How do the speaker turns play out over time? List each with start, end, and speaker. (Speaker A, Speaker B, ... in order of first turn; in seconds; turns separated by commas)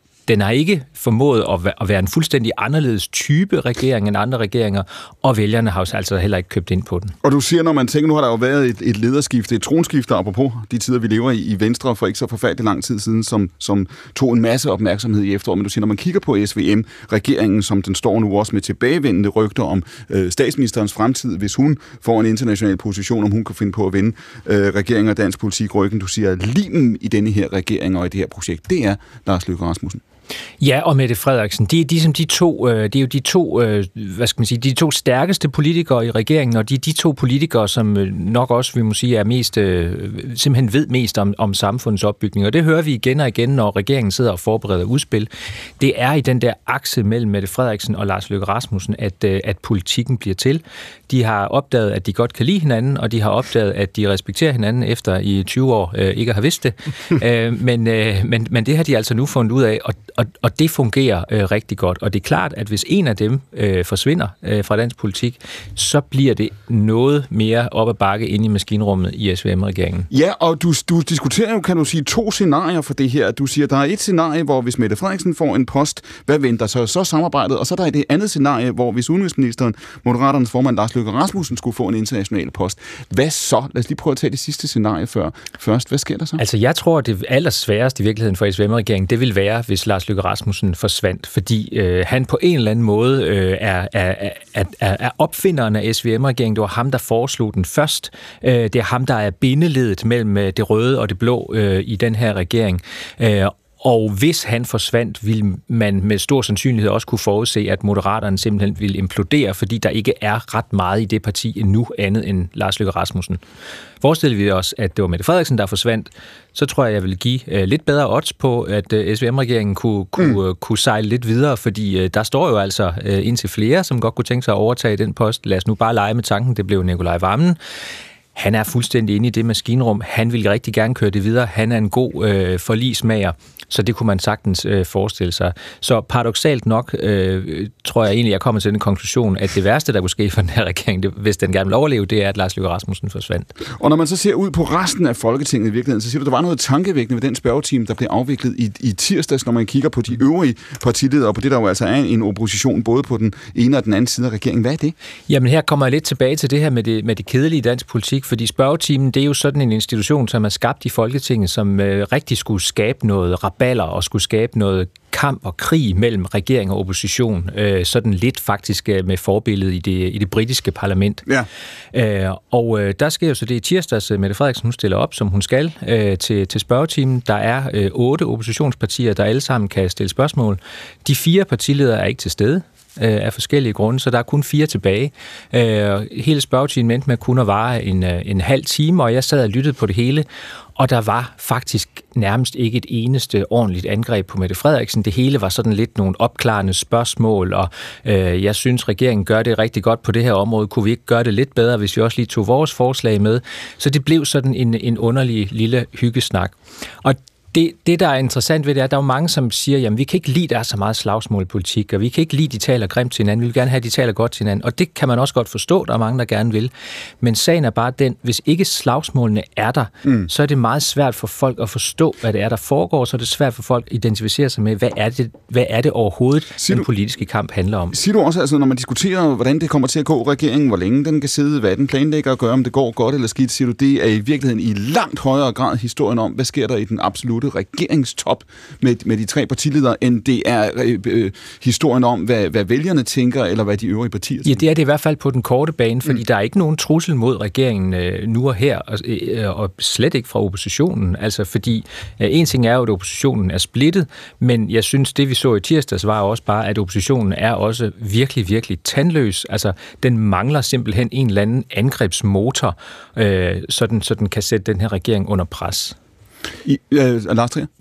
Speaker A: 0.3-7.1, Speaker B: 7.2-30.0, Speaker A: 30.6-70.1, Speaker B: 70.1-86.4, Speaker A: 86.4-113.4, Speaker A: 114.0-127.6, Speaker A: 128.3-143.5, Speaker B: 143.8-154.9, Speaker A: 155.3-171.2, Speaker A: 171.9-227.9, Speaker B: 226.6-226.9, Speaker B: 227.9-244.6, Speaker A: 244.4-265.9, Speaker B: 266.6-267.7